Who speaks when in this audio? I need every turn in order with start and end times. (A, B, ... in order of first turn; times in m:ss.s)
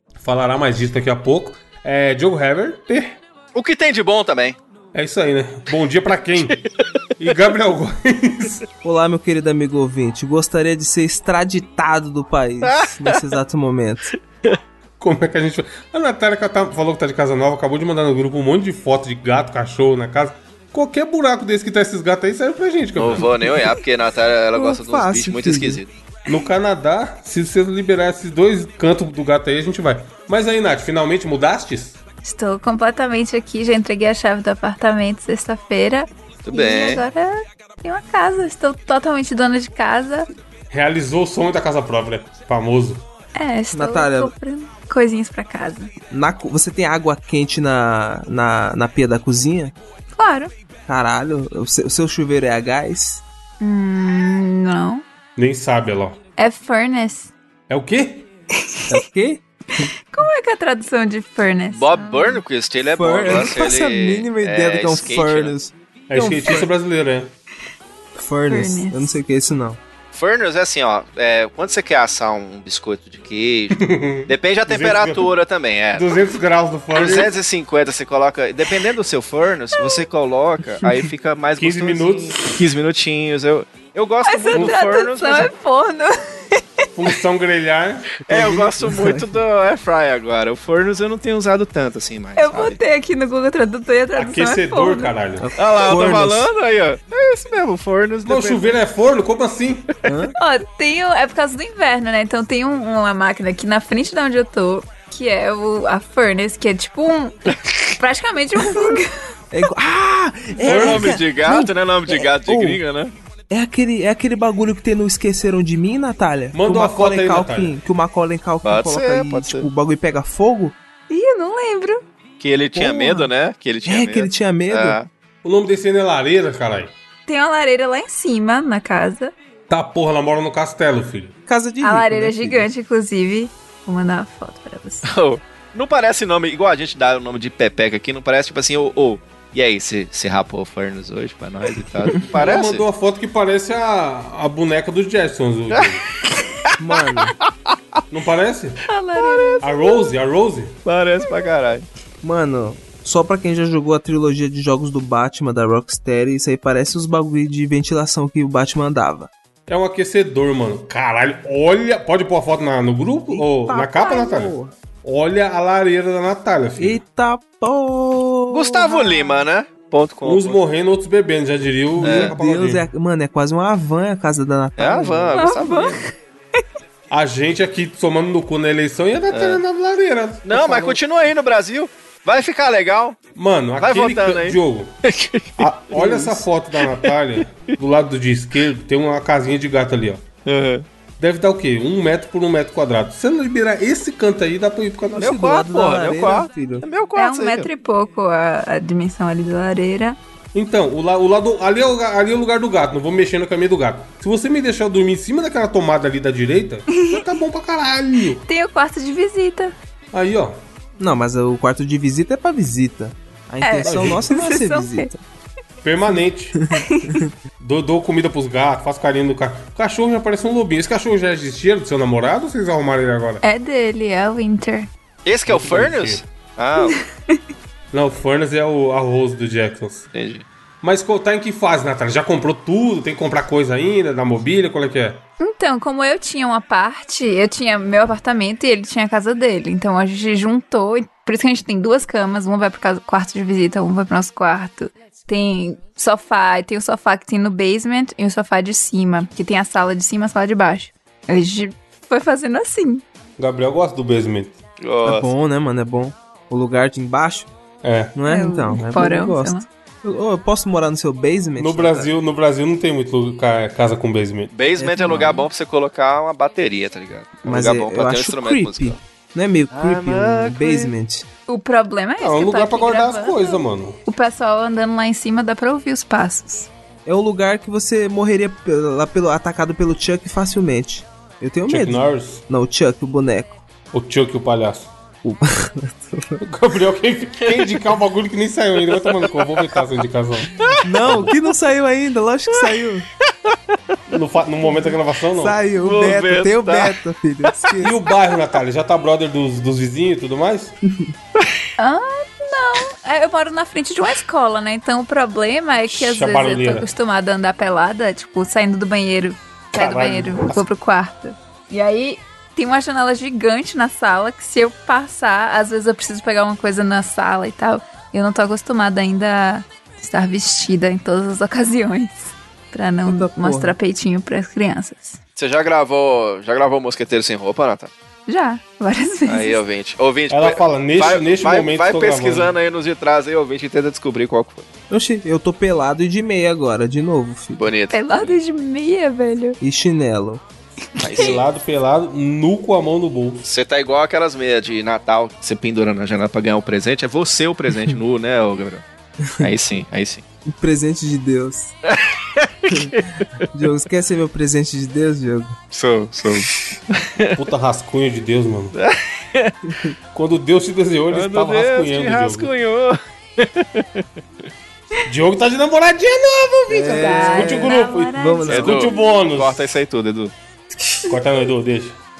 0:00.2-0:03.2 A
0:03.5-0:04.6 B
0:04.9-0:06.6 A
0:07.2-0:08.6 A
0:08.8-0:14.1 C
0:12.6-0:13.2 B
0:15.0-0:23.6 A
0:23.0-0:25.9 B
0:24.5-0:25.8 C
0:26.3-0:32.0 A
0:32.2-0:40.3 D
0:36.4-0:37.0 B
0:40.7-0:43.0 A
0:43.3-0:45.9 D
0:43.7-0:44.3 C
0:46.1-0:49.7 C
0:50.1-0:50.5 D
0:50.9-0:53.2 C
0:53.6-0:55.0 D
0:55.4-0:56.2 A
0:56.4-0:57.3 D
0:57.7-0:58.3 A
0:58.6-0:59.0 D
0:58.9-0:59.9 C
1:00.1-1:02.4 D
1:01.7-1:05.5 B
1:02.9-1:06.7 C
1:06.1-1:07.3 A
1:08.1-1:09.8 C
1:08.5-1:09.2 D
1:10.1-1:16.2 B
1:13.7-1:15.3 A
1:15.9-1:17.3 A
1:16.9-1:25.5 B
1:19.8-1:20.0 D
1:21.6-1:22.5 A
1:24.2-1:26.8 D
1:26.9-1:28.2 A
1:28.2-1:32.8 B
1:28.3-1:29.4 C
1:32.4-1:35.1 D
1:34.2-1:35.5 A
1:35.4-1:36.5 C
1:35.6-1:38.8 B
1:38.2-1:39.9 A
1:40.0-1:40.3 C
1:40.4-1:47.4 D
1:47.9-1:49.1 D
1:49.5-1:52.8 C
1:50.6-1:53.1 B
1:50.6-1:51.2 A
1:53.5-2:00.8 C
1:56.5-1:57.7 A
1:58.6-1:59.7 B
2:01.1-2:02.0 D
2:02.4-2:05.1 B
2:02.7-2:03.3 C
2:03.8-2:05.0 C
2:05.4-2:06.9 A
2:07.3-2:09.3 D
2:09.7-2:11.3 A
2:11.5-2:12.6 C
2:11.8-2:15.1 D
2:15.0-2:22.8 B
2:22.3-2:26.0 A
2:26.8-2:27.4 C
2:28.1-2:28.8 A
2:28.9-2:29.7 D
2:29.3-2:29.6 B
2:29.6-2:30.8 A
2:30.8-2:31.9 B
2:32.2-2:39.3 C
2:39.7-2:47.0 A
2:43.3-2:44.7 C
2:46.8-2:48.9 C
2:48.5-2:50.6 B
2:48.8-2:49.4 D
2:50.2-2:52.9 A
2:52.0-2:52.4 B
2:52.0-2:55.4 C
2:54.8-2:56.0 B
2:55.3-2:56.1 D
2:57.1-3:00.9 A
2:59.3-2:59.6 B
3:00.4-3:03.2 B
3:03.4-3:04.9 A
3:03.8-3:05.7 B
3:05.6-3:10.2 A
3:05.9-3:06.4 C
3:06.8-3:07.1 B
3:10.4-3:10.8 B
3:11.2-3:15.4 A
3:15.1-3:16.8 C
3:15.2-3:17.7 B
3:17.2-3:20.2 D
3:20.5-3:28.4 A
3:26.9-3:27.2 D
3:28.4-3:29.7 D
3:30.1-3:30.6 A
3:31.0-3:35.2 C
3:33.6-3:35.1 D
3:33.8-3:34.2 A
3:35.8-3:36.6 A
3:36.7-3:37.2 D
3:37.6-3:43.4 A
3:43.4-3:44.9 D
3:45.2-3:47.0 B
3:45.5-3:46.2 A
3:46.9-3:47.4 D
3:47.9-3:50.1 A
3:50.1-3:50.4 B
3:50.8-3:55.2 A
3:55.4-4:13.0 D
4:13.4-4:14.6 A
4:14.8-4:15.3 B
4:15.0-4:17.5 C
4:17.8-4:18.1 A
4:18.2-4:22.1 C
4:18.3-4:19.6 D
4:21.6-4:24.5 A
4:24.5-4:29.0 B
4:24.8-4:25.4 C
4:25.1-4:25.4 D
4:27.4-4:31.2 C
4:29.7-4:30.9 B
4:31.5-4:36.7 D
4:32.2-4:34.0 A
4:37.0-4:43.6 C
4:41.7-4:42.4 A
4:43.9-4:44.9 A
4:45.2-4:46.4 C
4:46.4-4:50.5 A
4:47.4-4:47.8 B
4:49.0-4:49.8 B
4:50.5-4:50.8 B
4:50.8-4:53.0 C
4:51.0-4:51.3 A
4:52.5-4:52.8 B
4:53.4-4:53.8 B
4:54.1-4:55.6 A
4:54.8-4:57.9 C
4:55.8-4:57.6 B
4:57.8-5:00.7 A
5:01.4-5:01.6 B
5:01.8-5:25.2 D
5:05.9-5:06.9 A
5:09.7-5:10.6 A
5:23.0-5:23.7 C
5:25.4-5:27.9 B
5:28.3-5:29.6 D
5:29.3-5:34.7 B
5:30.3-5:32.5 A
5:34.9-5:37.6 C
5:37.6-5:38.4 B
5:37.9-5:39.6 D
5:39.6-5:40.4 C
5:41.0-5:41.4 B
5:41.1-5:43.4 A
5:43.4-5:48.8 B
5:49.4-5:50.2 B
5:50.5-5:51.7 C
5:51.8-5:53.2 B
5:52.7-5:53.0 C
5:53.5-5:55.6 C
5:55.7-5:57.4 B
5:57.4-5:58.7 A
5:58.7-5:59.7 B
6:00.1-6:02.5 A
6:01.1-6:04.0 B
6:05.0-6:09.7 A
6:06.7-6:08.9 C
6:06.7-6:09.1 D
6:08.5-6:10.3 B
6:11.1-6:12.0 A